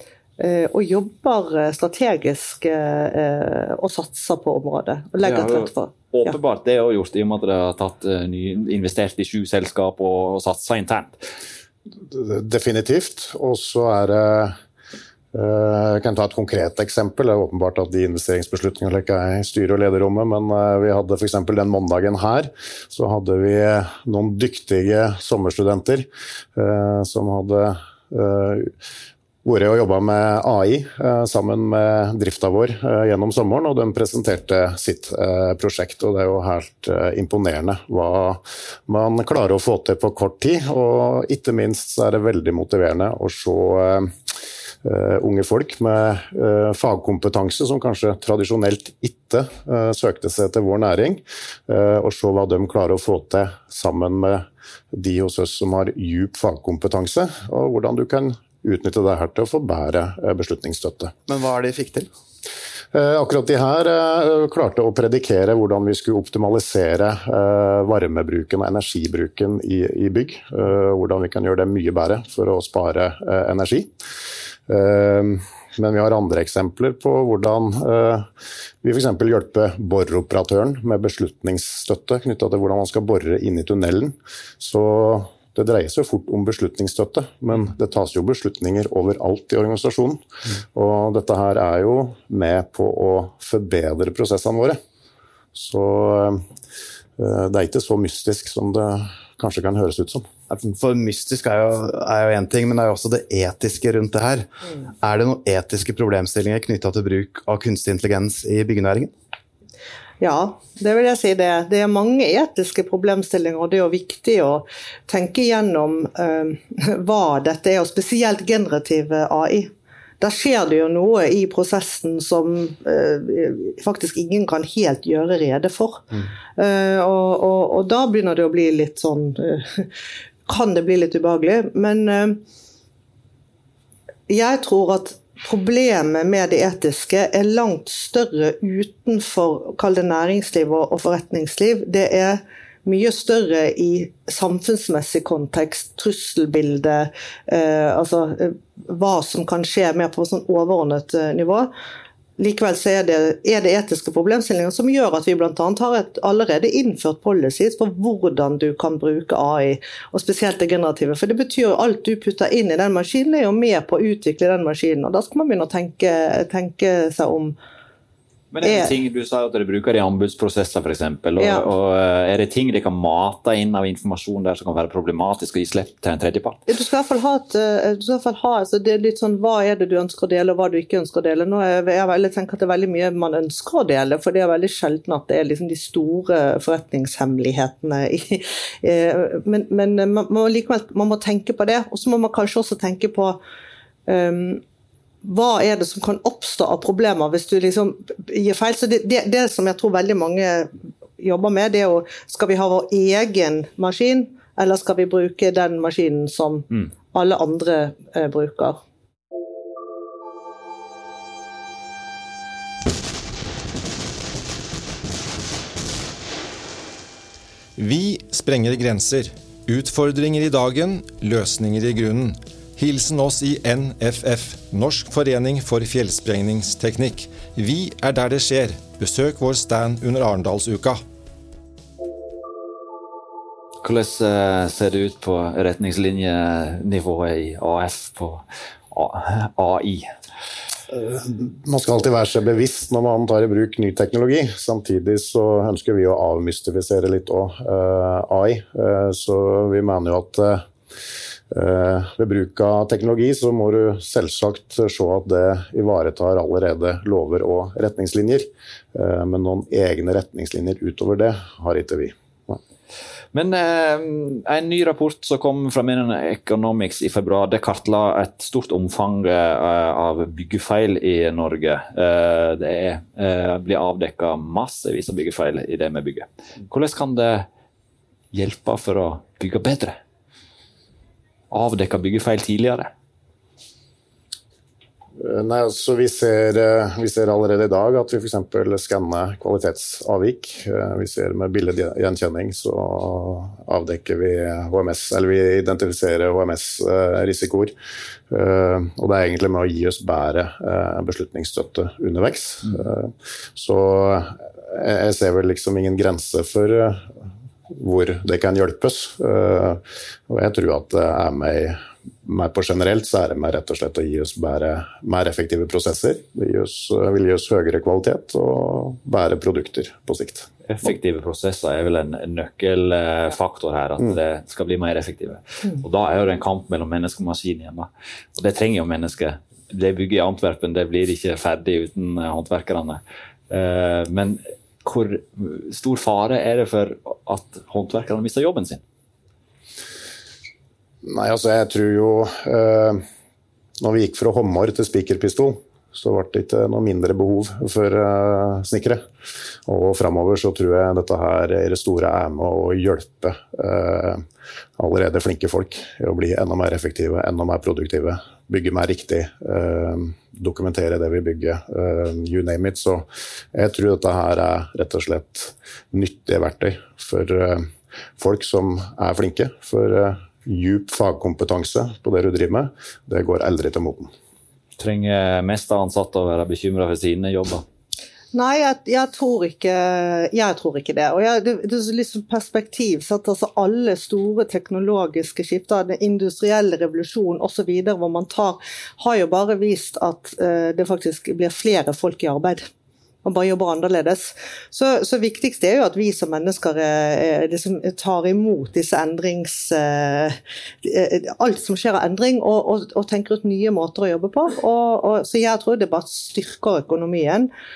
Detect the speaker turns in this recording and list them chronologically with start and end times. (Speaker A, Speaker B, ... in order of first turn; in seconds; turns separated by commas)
Speaker A: 0.4-6.3, Speaker B: 5.2-11.2, Speaker C: 12.1-14.6, Speaker C: 15.3-28.7, Speaker C: 29.4-44.1, Speaker C: 44.8-61.1, Speaker D: 61.3-62.1, Speaker C: 62.9-73.9, Speaker C: 74.7-78.3, Speaker C: 78.8-90.2, Speaker C: 90.7-94.8, Speaker C: 95.5-96.4, Speaker C: 97.2-100.3, Speaker D: 100.5-109.1, Speaker A: 110.2-129.9, Speaker A: 130.5-132.4, Speaker A: 134.3-151.7, Speaker A: 152.4-167.6, Speaker B: 168.5-176.7, Speaker A: 168.6-168.9, Speaker A: 171.4-171.7, Speaker A: 176.7-193.4, Speaker A: 194.1-194.6, Speaker A: 195.2-208.8, Speaker E: 217.8-231.0, Speaker B: 233.8-240.1, Speaker C: 240.9-250.7, Speaker C: 251.5-262.6, Speaker B: 263.3-277.5, Speaker B: 278.3-280.0, Speaker B: 281.5-282.9, Speaker C: 285.2-297.7, Speaker C: 298.3-307.1, Speaker C: 307.7-320.5, Speaker B: 320.7-338.8, Speaker C: 341.0-343.0, Speaker C: 343.8-349.0, Speaker C: 349.7-354.2, Speaker C: 354.8-374.1, Speaker B: 374.8-377.6, Speaker A: 378.3-392.7, Speaker A: 393.2-407.5